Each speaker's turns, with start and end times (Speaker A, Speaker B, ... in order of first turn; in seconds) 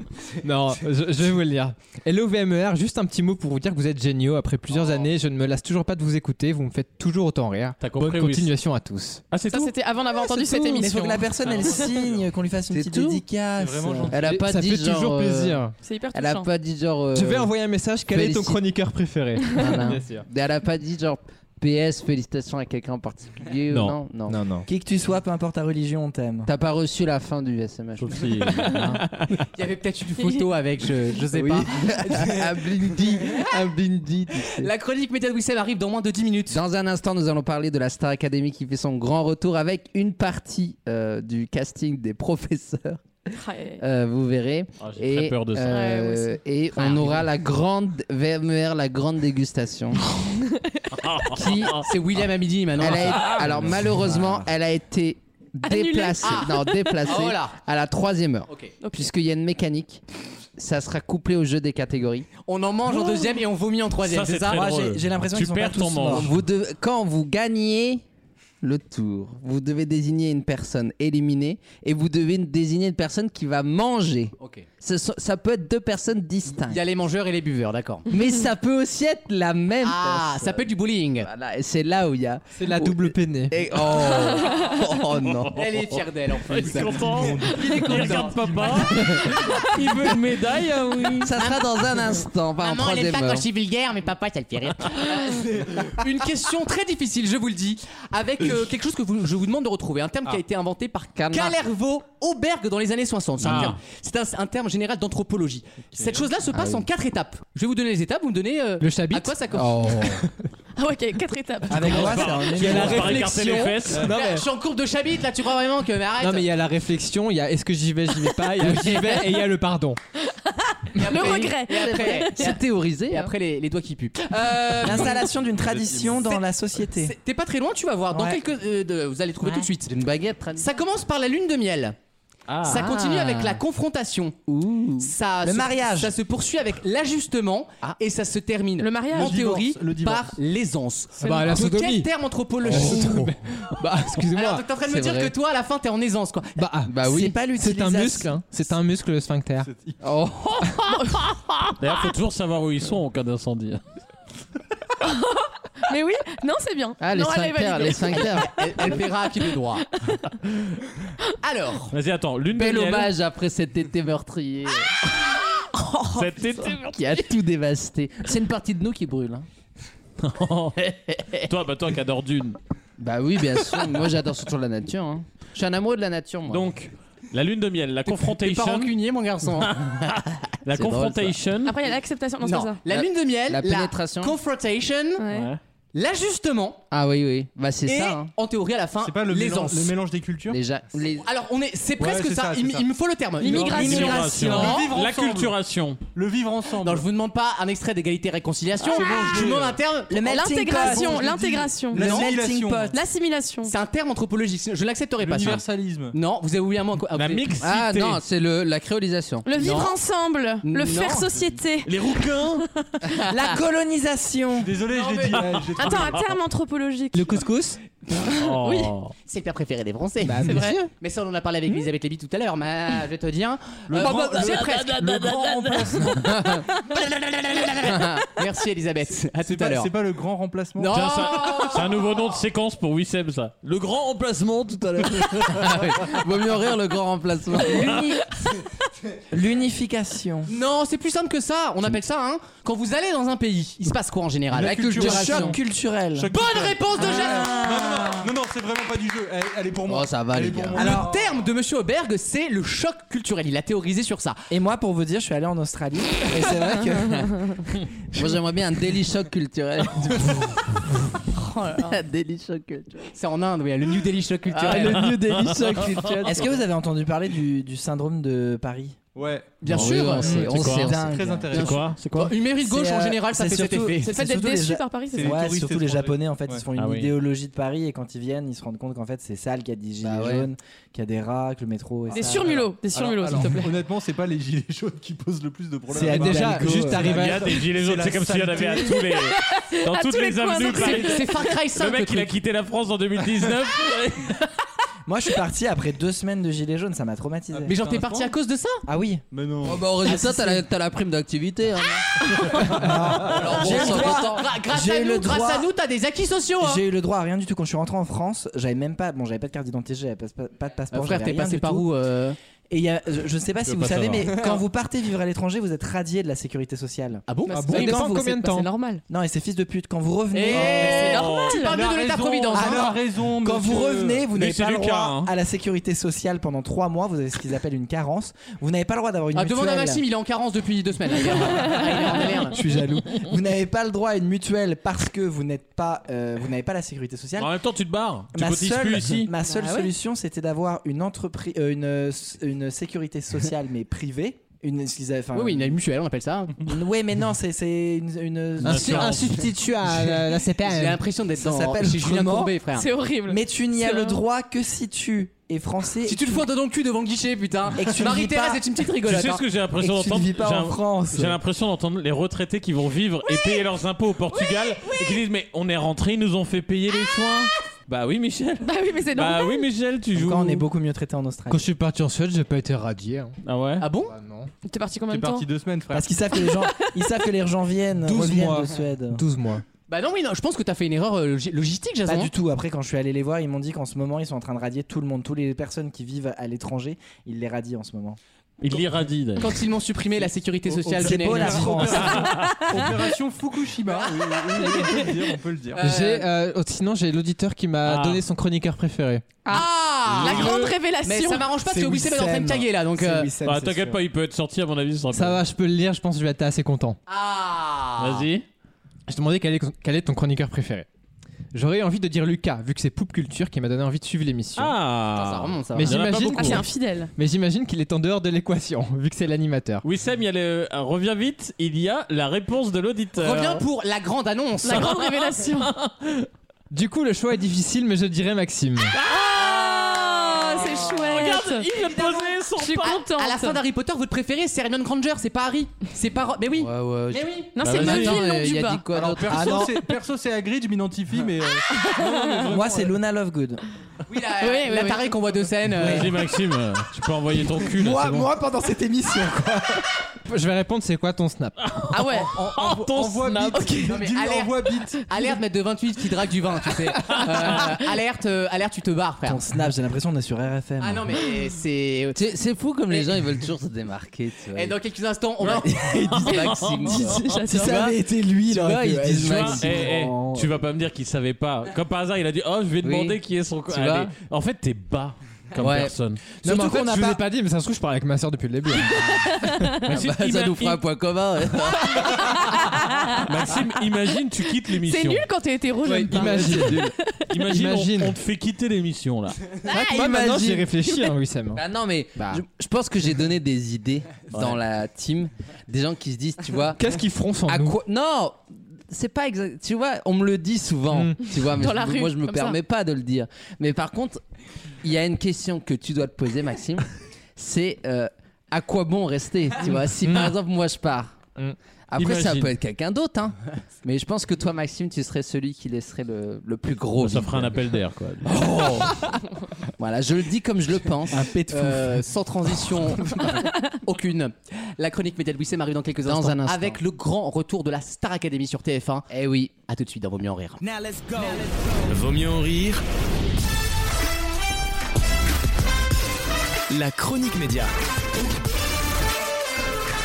Speaker A: 0.4-9.2, 14.2-15.7, 17.1-20.2, 23.7-24.7, 82.5-83.6, 108.8-110.2, 112.6-114.5, 116.2-120.0, 141.2-142.1, 142.6-144.6, 146.6-149.7, 217.1-217.8, 220.2-220.9, 286.0-287.5, 317.6-318.7, 348.6-351.0, 371.5-373.4, 374.0-374.5, 378.1-379.6, 395.8-399.3, 405.1-407.0, 409.1-410.9, 411.5-414.8, 415.7-419.8, 426.7-428.9, 450.2-451.6, 476.4-479.3, 485.9-488.1, 489.7-491.6, 492.2-492.4, 496.8-497.8
Speaker B: 7.8-8.5, 9.3-9.7, 28.0-29.0, 44.8-45.9, 50.9-51.9, 53.2-53.9, 64.0-66.3, 85.2-91.3, 103.4-103.8, 111.7-114.1, 132.5-132.9, 151.8-153.8, 161.9-163.1, 166.1-167.0, 170.2-172.6, 176.5-178.9, 179.6-181.8, 185.3-185.6, 193.6-196.0, 207.1-208.2, 211.8-212.7, 218.3-219.1, 224.0-226.2, 230.9-235.7, 264.7-266.4, 269.7-270.9, 271.5-272.4, 276.7-277.1, 287.1-294.4, 313.6-314.3, 321.1-321.6, 324.3-325.3, 337.4-339.3, 348.6-349.5, 359.0-370.6, 373.4-373.9, 388.6-389.6, 391.9-392.8, 397.8-398.2, 403.4-405.4, 408.0-408.4, 414.6-416.6, 419.8-423.6, 424.6-426.3, 429.1-433.1, 437.6-438.2, 445.7-448.3, 451.6-453.8, 465.9-467.4, 469.2-476.2, 479.8-480.8, 483.2-485.2, 486.2-489.4, 494.3-494.6, 511.9-512.5, 517.0-518.4
Speaker C: 9.5-11.3, 15.8-16.5, 43.3-43.8, 45.6-46.4, 55.6-57.0, 58.8-59.1, 110.8-112.4, 118.7-119.4, 120.3-122.6, 138.8-139.4, 150.8-151.3, 155.0-158.5, 165.8-166.2, 181.6-182.8, 185.2-185.5, 193.4-194.7, 198.8-199.2, 200.2-202.0, 202.9-203.7, 209.4-212.4, 215.7-217.5, 218.4-218.9, 220.4-220.8, 261.4-261.9, 274.0-275.4, 282.1-283.8, 288.9-291.4, 317.4-319.0, 320.5-321.9, 339.5-339.9, 352.7-354.2, 368.6-369.7, 374.6-375.5, 376.4-377.1, 392.5-392.9, 394.8-395.1, 399.4-401.5, 416.3-417.1, 424.6-425.7, 429.0-433.6, 437.5-438.8, 441.7-442.5, 444.4-445.3, 451.9-452.3, 453.5-453.9, 466.2-467.9, 479.1-479.8, 482.0-483.5, 484.7-487.3, 489.7-491.1, 501.3-502.6
Speaker D: 10.7-14.1, 24.7-26.5, 64.5-66.3, 111.7-113.3, 124.8-127.1, 128.1-128.4, 135.4-136.1, 147.1-148.3, 200.1-201.3, 202.0-202.9, 213.3-214.7, 239.3-240.5, 244.9-246.3, 254.5-257.7, 264.6-269.0, 270.2-271.6, 272.6-282.6, 285.9-287.1, 295.1-297.7, 298.9-299.2, 300.0-300.6, 302.7-305.7, 306.6-311.9, 312.7-317.2, 319.1-321.1, 322.6-330.0, 332.5-337.5, 338.3-345.8, 346.6-349.4, 351.4-352.5, 353.3-356.4, 357.8-358.6, 359.8-361.4, 370.1-371.7, 375.9-379.2, 382.1-388.2, 391.0-392.2, 400.2-400.7, 401.6-404.0, 439.3-439.7, 442.5-443.6, 447.6-449.8, 459.2-461.1, 467.5-470.5, 476.4-477.2, 490.0-490.4, 521.1-522.0, 530.7-531.2
Speaker E: 11.4-12.3, 13.6-14.2, 86.9-88.9, 106.0-106.3, 125.6-126.2, 139.1-140.4, 149.6-150.0, 189.0-190.6, 192.0-192.9, 193.4-195.6, 196.1-197.1, 198.9-199.8, 200.8-202.9, 205.2-206.2, 214.6-216.3, 223.9-226.3, 229.4-231.1, 244.5-245.5, 246.1-251.3, 269.1-271.8, 275.1-276.6, 282.1-288.9, 297.6-298.3, 299.3-300.0, 320.5-324.3, 375.1-376.1, 390.6-395.8, 438.9-443.0, 452.1-455.0
Speaker F: 12.7-13.2, 14.1-17.5, 18.1-18.6, 19.5-24.4, 26.4-29.0, 31.3-34.7, 36.5-43.0, 43.8-50.0, 51.3-51.8, 52.8-60.0, 60.6-62.3, 66.0-68.0, 68.6-76.8, 78.1-85.5, 88.8-89.4, 91.2-93.5, 101.2-101.6, 106.5-106.8, 121.5-123.3, 129.4-130.7, 132.7-133.6, 134.5-135.1, 142.8-143.2, 144.8-145.3, 146.8-147.4, 150.0-151.2, 157.0-159.0, 162.5-164.9, 166.7-169.4, 170.9-171.4, 173.0-176.7, 180.7-181.4, 182.9-184.3, 186.9-188.3, 190.5-191.2, 207.6-209.5, 226.3-226.6, 227.8-228.3, 235.5-238.2, 245.0-245.5, 249.9-251.0, 258.1-260.6, 261.7-263.1, 264.5-266.5, 269.7-271.8, 280.0-280.5, 299.6-302.2, 302.8-304.5, 436.6-439.7, 462.1-464.8, 465.4-467.8, 468.5-469.9, 472.8-473.2, 473.7-474.1, 475.6-475.9, 479.9-482.4, 491.5-496.8, 497.4-504.2, 504.8-511.2, 511.9-517.7, 518.2-519.0, 519.8-521.3, 526.0-526.8, 529.1-529.5
Speaker G: 29.5-32.1, 34.4-36.6, 46.8-47.2, 51.7-53.4, 56.2-56.5, 57.0-57.5, 58.5-58.7, 62.5-64.6, 74.4-74.7, 76.5-78.0, 79.8-81.3, 85.5-88.6, 92.6-110.1, 113.9-116.5, 118.6-119.0, 120.9-122.6, 123.1-125.2, 126.2-129.9, 130.5-131.9, 132.6-134.4, 135.0-143.2, 144.3-146.6, 158.1-159.9, 161.4-161.9, 178.1-179.8, 182.4-185.2, 185.9-186.8, 187.8-190.0, 191.2-194.9, 196.8-201.2, 201.9-202.3, 203.6-207.4, 209.6-210.0, 210.6-211.2, 214.9-216.0, 219.2-225.0, 227.7-229.9, 230.8-231.9, 240.4-245.6, 246.3-247.6, 250.7-254.4, 263.1-265.1, 269.6-270.3, 272.1-274.1, 290.7-292.3, 297.6-298.8, 303.2-306.8, 310.9-312.4, 317.3-318.1, 320.3-322.9, 329.3-332.6, 345.3-346.6, 350.6-352.9, 356.0-359.4, 373.8-374.1, 379.9-382.3, 389.4-391.9, 393.9-395.0, 395.7-396.3, 399.5-403.3, 407.1-408.2, 415.1-416.1, 423.2-424.9, 433.1-437.5, 444.1-446.1, 453.8-459.4, 460.8-462.2, 462.9-463.2, 464.5-465.7, 521.5-529.1, 529.7-530.6
Speaker H: 531.8-532.8, 536.7-537.7